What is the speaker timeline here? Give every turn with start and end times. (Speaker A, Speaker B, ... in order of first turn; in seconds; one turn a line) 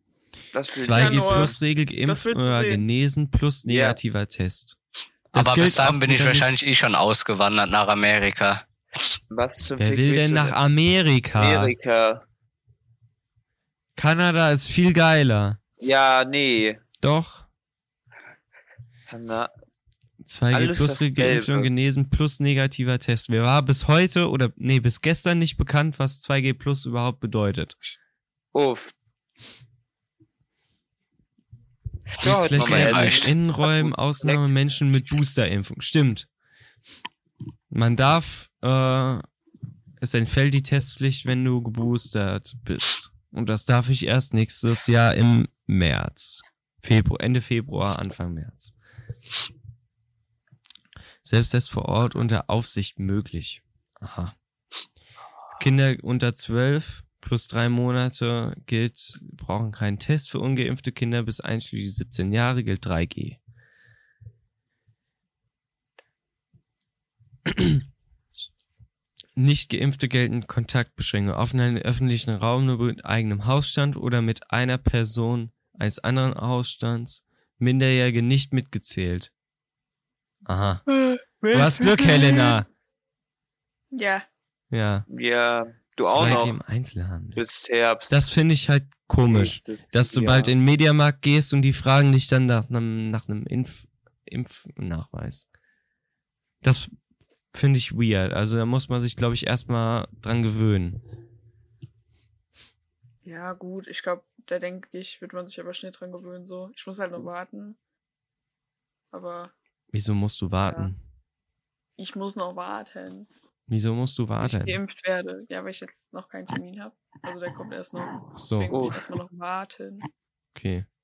Speaker A: 0.5-1.6
Speaker B: 0.8-4.8
Speaker C: 0.9-2.8
Speaker A: 3.7-4.0
Speaker B: 5.3-6.6
Speaker D: 5.3-8.6
Speaker A: 9.3-10.6
Speaker B: 9.8-11.7
Speaker A: 11.4-12.2
Speaker B: 14.0-15.6
Speaker A: 15.8-16.8
Speaker B: 17.0-17.5
Speaker A: 19.1-19.5
Speaker B: 20.2-27.8
Speaker A: 20.5-21.7
Speaker A: 28.5-28.9
Speaker A: 32.2-34.5
Speaker B: 32.2-36.3
Speaker D: 32.6-33.3
Speaker B: 37.7-39.2
Speaker B: 40.0-48.7
Speaker B: 51.2-54.3
Speaker B: 55.6-63.4
Speaker B: 67.5-67.8
Speaker B: 69.4-79.3
Speaker B: 80.5-80.8
Speaker C: 80.9-82.6
Speaker B: 81.5-82.7
Speaker C: 83.9-84.3
Speaker B: 84.7-85.1
Speaker A: 85.1-86.6
Speaker B: 86.0-87.4
Speaker A: 87.4-88.2
Speaker B: 88.1-95.5
Speaker A: 89.2-90.5
Speaker B: 96.6-96.9
Speaker B: 97.5-101.0
Speaker C: 103.2-107.8
Speaker C: 109.1-109.5
Speaker B: 109.9-111.0
Speaker C: 110.6-110.9
Speaker C: 112.0-113.3
Speaker B: 113.7-114.8
Speaker C: 114.4-120.1
Speaker B: 118.3-118.8
Speaker A: 118.7-119.1
Speaker B: 120.5-120.9